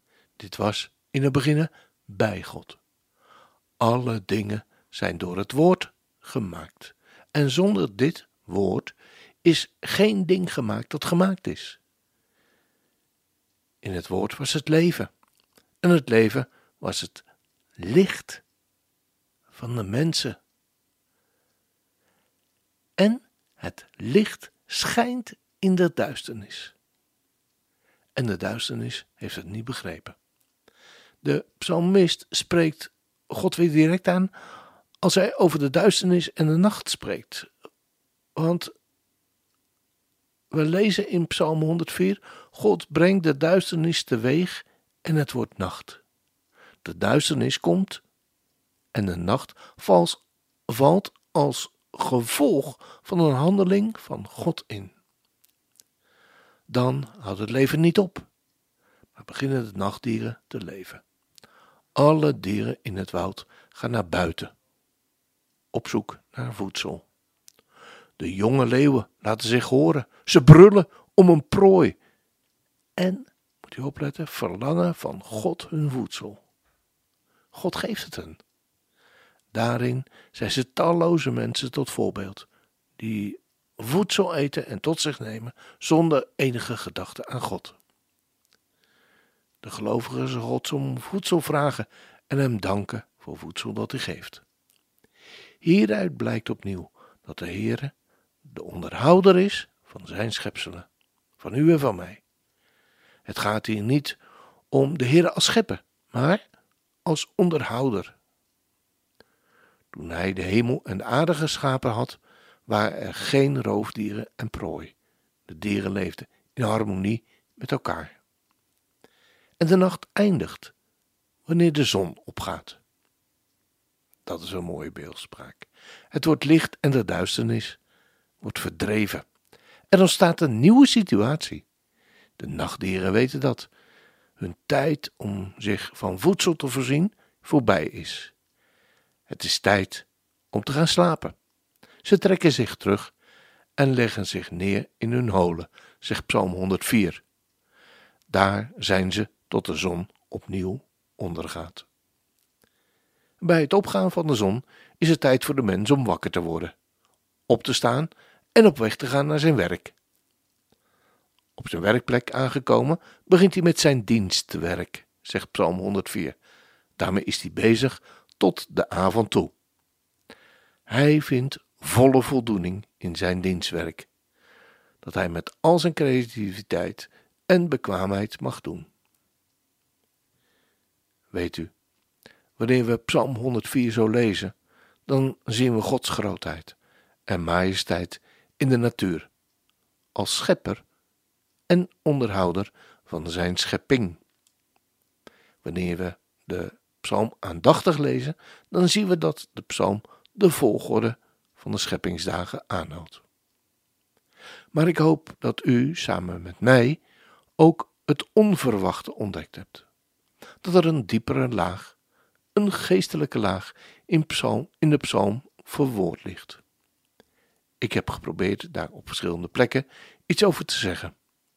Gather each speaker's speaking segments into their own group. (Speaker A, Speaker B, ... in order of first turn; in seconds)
Speaker A: 0.4-2.8, 3.8-11.8, 13.8-15.1, 15.8-17.2, 17.8-18.4, 19.5-20.4, 23.0-26.7, 28.1-30.2, 31.2-34.3, 35.0-37.5, 38.3-38.7, 40.5-46.0, 46.8-48.0, 48.9-54.9, 56.7-58.3, 59.1-61.0, 62.0-64.5, 65.7-67.0, 68.2-72.0, 73.0-76.4, 77.5-78.4, 79.5-87.8, 89.6-94.4, 95.6-97.9, 98.4-100.9, 101.4-102.2, 103.2-104.2, 104.7-106.4, 107.0-108.2, 109.9-114.9, 115.5-118.2, 119.6-120.7, 121.5-122.8, 124.2-127.8, 128.4-129.2, 129.9-131.6, 132.4-133.7, 134.4-138.3, 139.3-141.3, 142.0-143.1, 143.8-147.2, 148.3-151.9, 153.4-156.7, 157.5-159.9, 161.6-166.3, 167.0-169.5, 170.9-174.1, 175.0-178.9, 181.3-181.7, 182.6-184.5, 185.1-186.8, 187.3-189.3, 190.1-190.8, 191.7-194.2, 195.6-203.2, 204.7-207.0, 207.6-209.8, 210.6-211.9, 212.5-216.6, 217.8-221.1